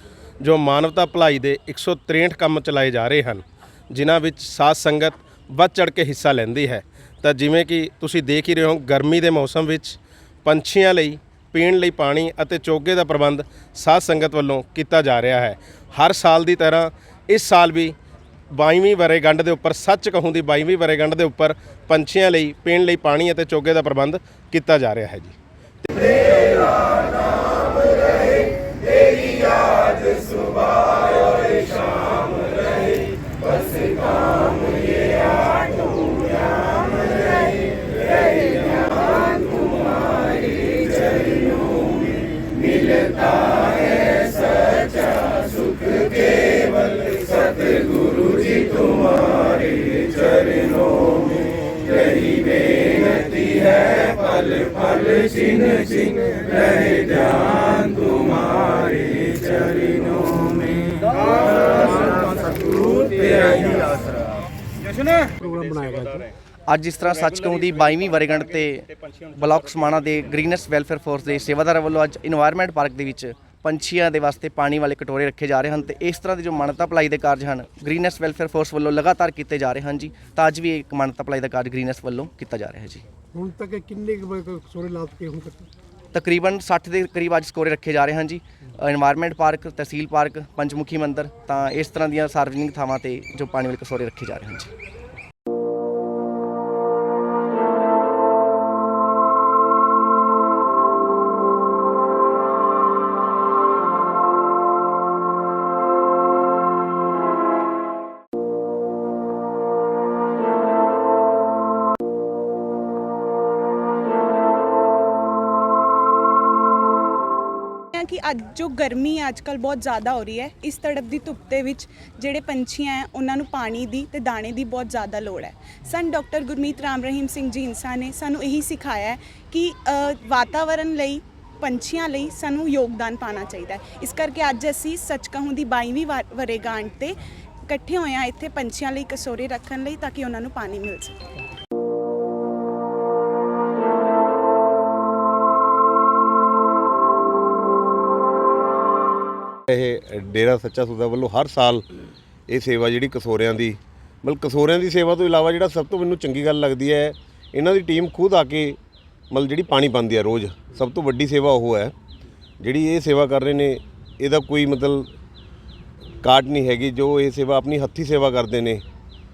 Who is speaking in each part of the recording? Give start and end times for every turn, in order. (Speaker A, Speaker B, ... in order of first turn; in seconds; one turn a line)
Speaker A: 0.4-17.9
Speaker A: 18.5-25.3
Speaker B: 65.4-66.3
Speaker C: 66.7-83.0
Speaker B: 83.3-85.7
Speaker C: 86.1-94.7
Speaker D: 117.9-141.3
Speaker E: 149.7-151.9
Speaker E: 152.5-158.8
Speaker E: 159.3-161.9
Speaker E: 162.6-165.1
Speaker E: 166.2-168.8